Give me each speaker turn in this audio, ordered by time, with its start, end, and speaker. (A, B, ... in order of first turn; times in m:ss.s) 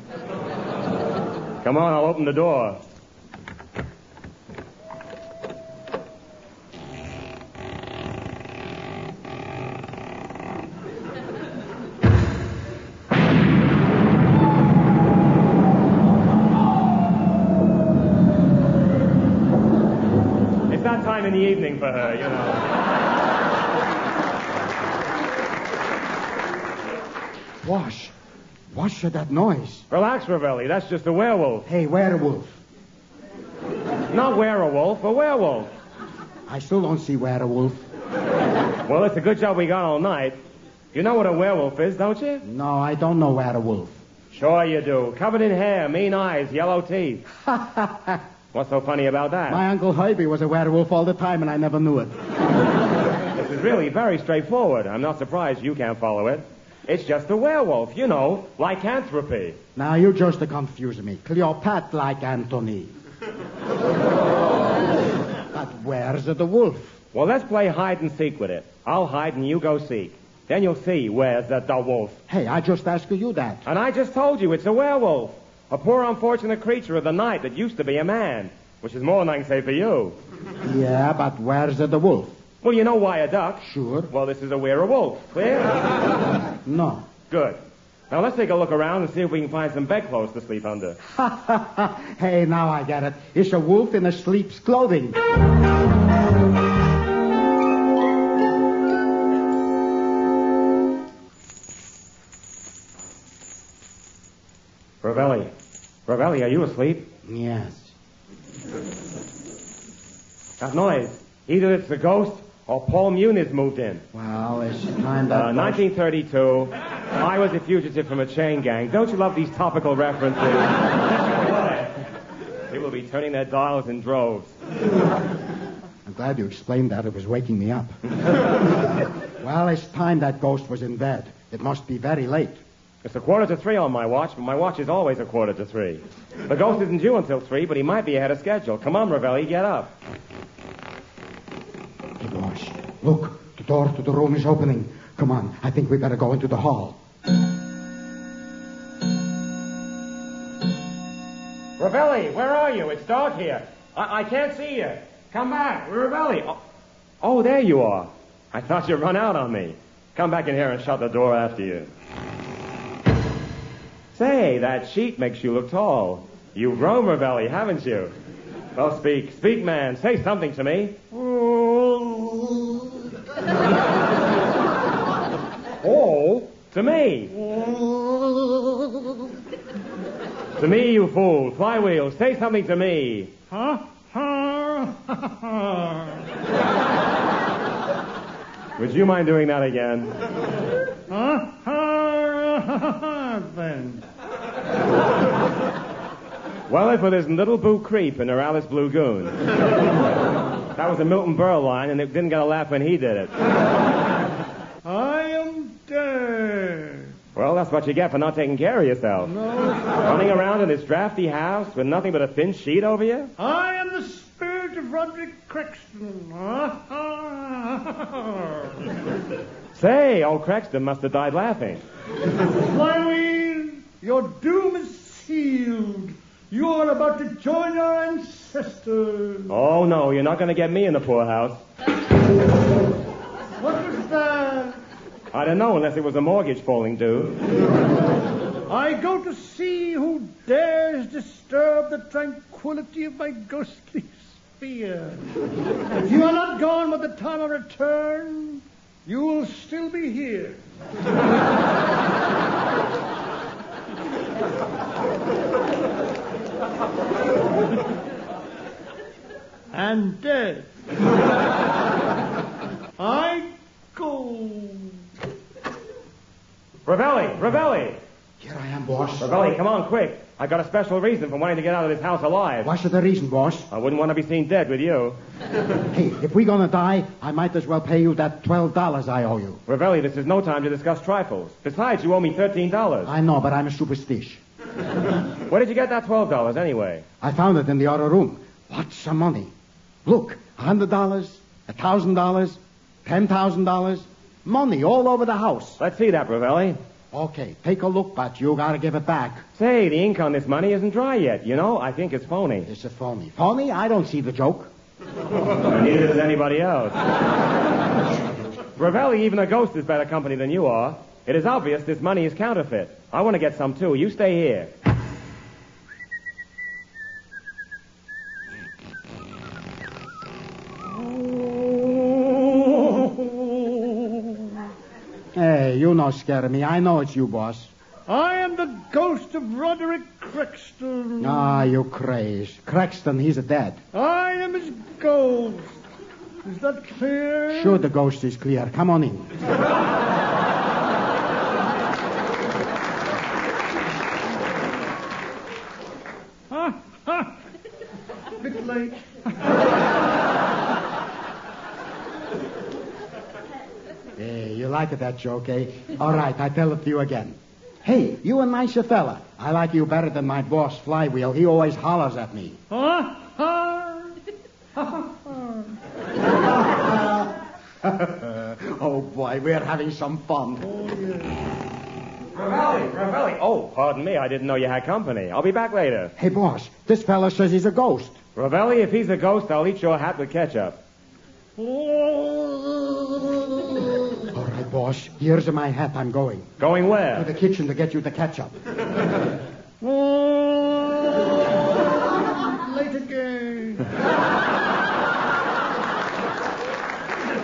0:01.6-0:02.8 A
0:20.7-0:22.6 A
0:27.6-0:28.1 B
0:28.7-0:29.9 B
0:29.9-0:31.7 A
0:31.7-0:32.6 B
0:34.1-0:35.7 A
0:36.5-0:37.9 B
0:38.9-0:40.4 A
0:40.9-0:42.4 A
0:42.4-0:44.0 B
0:44.3-0:47.2 A
0:47.3-0:48.2 B
0:48.5-0:49.6 A
0:49.5-0:52.2 B
0:53.4-0:59.6 A
0:59.8-1:02.9 B
1:05.5-1:07.0 B
1:07.1-1:12.2 A
1:12.3-1:13.6 B
1:13.6-1:20.2 A
1:20.6-1:22.4 B
1:22.6-1:25.8 A
1:23.6-1:24.1 B
1:26.6-1:27.0 B
1:27.3-1:27.6 A
1:28.1-1:31.0 A
1:31.1-1:35.2 B
1:45.0-1:45.5 A
1:46.1-1:47.1 A
1:47.2-1:47.9 B
1:50.6-1:54.0 A
1:54.1-1:55.8 B
1:55.3-2:01.9 A
2:02.7-2:04.5 A
2:06.0-2:08.4 B
2:09.4-2:12.6 B
2:13.0-2:19.9 A
2:22.2-2:27.0 B
2:31.8-2:36.6 A
2:37.2-2:41.9 A
2:44.2-2:48.1 A
2:48.8-2:51.0 A
2:51.1-2:52.9 C
2:55.8-2:57.3 A
2:57.3-2:59.0 C
3:00.6-3:03.3 A
3:03.5-3:06.1 C
3:08.8-3:10.1 A
3:11.1-3:14.0 C
3:16.7-3:19.4 A
3:20.8-3:23.3 A
3:24.8-3:27.1 C
3:27.4-3:29.4 A
3:29.3-3:30.3 C
3:30.0-3:33.3 A
3:33.4-3:38.7 C
3:39.8-3:41.8 A
3:42.4-3:49.5 C
3:49.5-3:51.6 A
3:53.6-3:54.8 C
3:55.3-3:57.4 A
3:58.7-4:05.2 C
4:05.9-4:10.6 C
4:19.7-4:20.7 C
4:23.0-4:24.9 C
4:26.9-4:28.0 A
4:28.4-4:29.3 B
4:29.2-4:32.7 A
4:32.6-4:33.7 B
4:33.7-4:35.2 A
4:35.9-4:39.6 B
4:39.7-4:43.1 A
4:43.0-4:44.4 B
4:45.5-4:47.0 A
4:47.2-4:49.5 B
4:50.0-4:55.8 B
4:55.8-4:56.8 A
4:57.1-4:59.4 B
4:59.6-5:02.7 A
5:02.7-5:04.7 B
5:05.6-5:07.0 A
5:08.8-5:14.7 A
5:20.9-5:24.4 C
5:25.4-5:27.7 B
5:28.1-5:31.7 C
5:31.2-5:33.8 B
5:33.9-5:35.8 C
5:36.4-5:37.8 C
5:37.5-5:39.3 B
5:46.5-5:47.3 C
5:48.4-5:49.4 C
5:54.2-6:02.6 B
6:02.7-6:04.1 C
6:04.8-6:05.7 C
6:06.7-6:07.3 B
6:07.8-6:10.6 B
6:10.6-6:11.4 C
6:12.4-6:16.1 A
6:16.2-6:18.2 B
6:18.4-6:20.8 A
6:21.6-6:23.9 C
6:24.3-6:26.5 B
6:26.6-6:27.3 A
6:27.1-6:28.5 B
6:29.8-6:33.9 C